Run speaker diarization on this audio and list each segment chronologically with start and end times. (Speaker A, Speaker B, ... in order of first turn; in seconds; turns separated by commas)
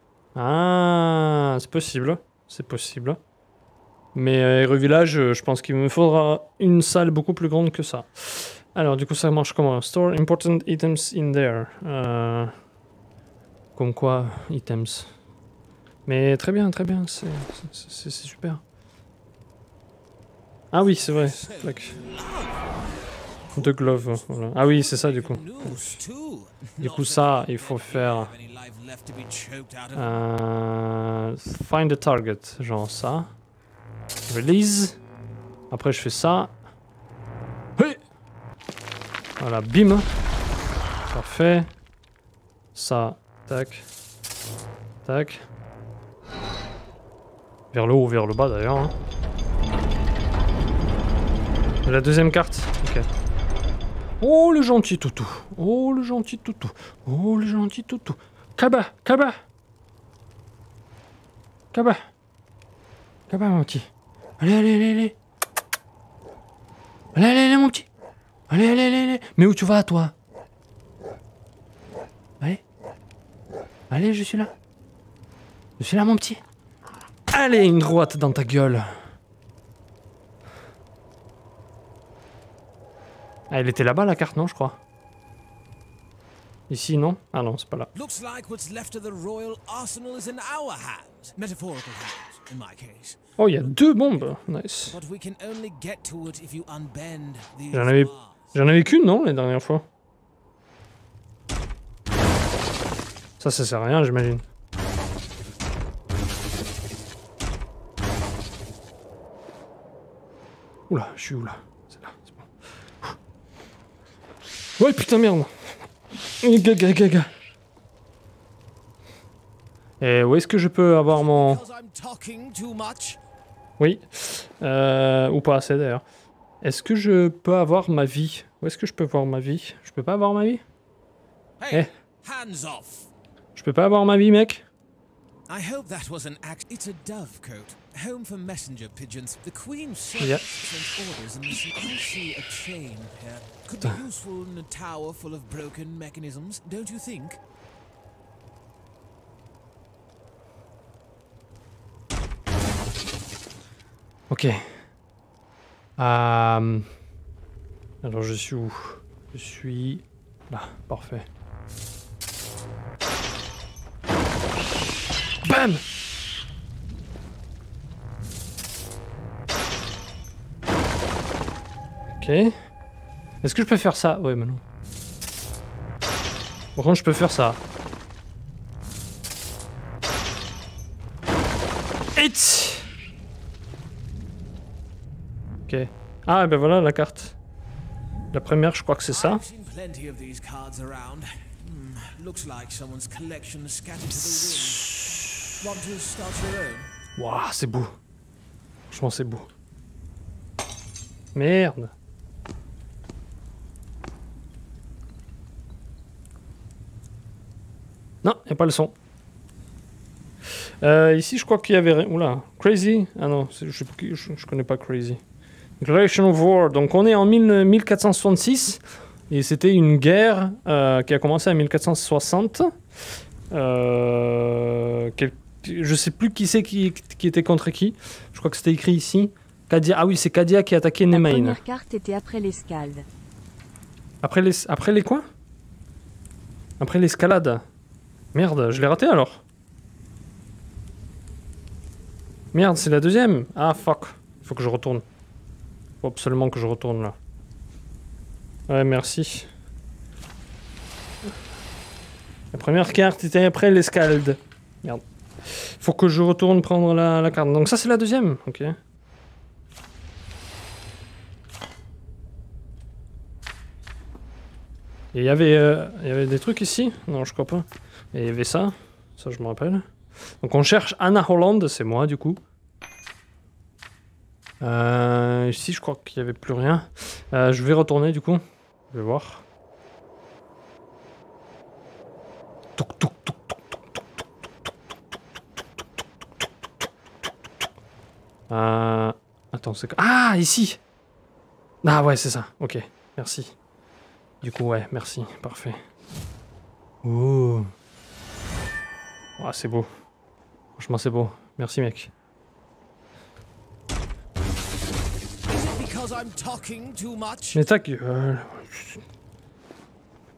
Speaker A: 0.3-3.2, Speaker A: 4.1-12.5, Speaker A: 13.8-15.1, Speaker A: 16.1-18.6, Speaker A: 20.7-22.0, Speaker B: 20.8-22.8, Speaker B: 23.5-30.1, Speaker A: 23.6-26.0, Speaker A: 26.8-28.3, Speaker A: 29.9-33.3, Speaker A: 34.3-35.0, Speaker A: 35.7-36.5, Speaker A: 39.4-40.1, Speaker A: 41.1-41.7, Speaker A: 42.7-43.9, Speaker A: 45.0-45.4, Speaker A: 47.7-48.9, Speaker A: 51.8-53.1, Speaker A: 54.2-59.4, Speaker A: 61.7-62.0, Speaker A: 63.3-63.9, Speaker A: 64.4-65.2, Speaker A: 67.1-67.9, Speaker A: 68.5-70.1, Speaker A: 73.9-74.5, Speaker A: 75.8-76.4, Speaker A: 77.3-78.9, Speaker A: 83.5-84.8, Speaker A: 86.7-87.9, Speaker B: 87.9-93.2, Speaker A: 93.4-95.0, Speaker B: 94.9-98.5, Speaker A: 97.7-99.8, Speaker A: 103.4-104.4, Speaker A: 110.9-112.5, Speaker A: 114.8-115.5, Speaker A: 116.4-117.3, Speaker A: 120.0-121.6, Speaker B: 121.1-123.2, Speaker A: 123.8-126.0, Speaker A: 126.6-130.6, Speaker B: 131.6-133.1, Speaker A: 133.6-134.6, Speaker B: 135.5-147.4, Speaker A: 140.2-140.4, Speaker A: 154.3-154.8, Speaker A: 156.0-156.9, Speaker A: 158.0-161.3, Speaker A: 165.4-165.8, Speaker A: 172.2-172.5, Speaker A: 173.4-174.6, Speaker A: 176.8-177.6, Speaker A: 182.2-182.9, Speaker A: 185.7-187.4, Speaker A: 188.3-189.4, Speaker B: 189.1-194.9, Speaker A: 194.1-195.5, Speaker B: 195.6-196.9, Speaker A: 197.2-197.9, Speaker A: 198.9-199.5, Speaker A: 201.3-201.9, Speaker A: 208.2-208.9, Speaker A: 210.8-215.2, Speaker A: 215.8-222.8, Speaker A: 223.5-231.6, Speaker C: 231.1-233.1, Speaker A: 234.2-235.2, Speaker A: 236.8-237.6, Speaker A: 238.3-239.4, Speaker A: 242.5-245.0, Speaker A: 246.0-247.2, Speaker A: 248.7-249.5, Speaker A: 252.5-258.8, Speaker A: 265.1-269.9, Speaker A: 270.4-272.4, Speaker A: 274.6-279.4, Speaker A: 282.8-284.2, Speaker A: 288.5-290.8, Speaker A: 291.8-293.5, Speaker A: 294.4-295.8, Speaker A: 297.0-297.7, Speaker A: 299.4-299.9, Speaker A: 300.8-302.1, Speaker B: 305.5-307.6, Speaker A: 307.5-309.0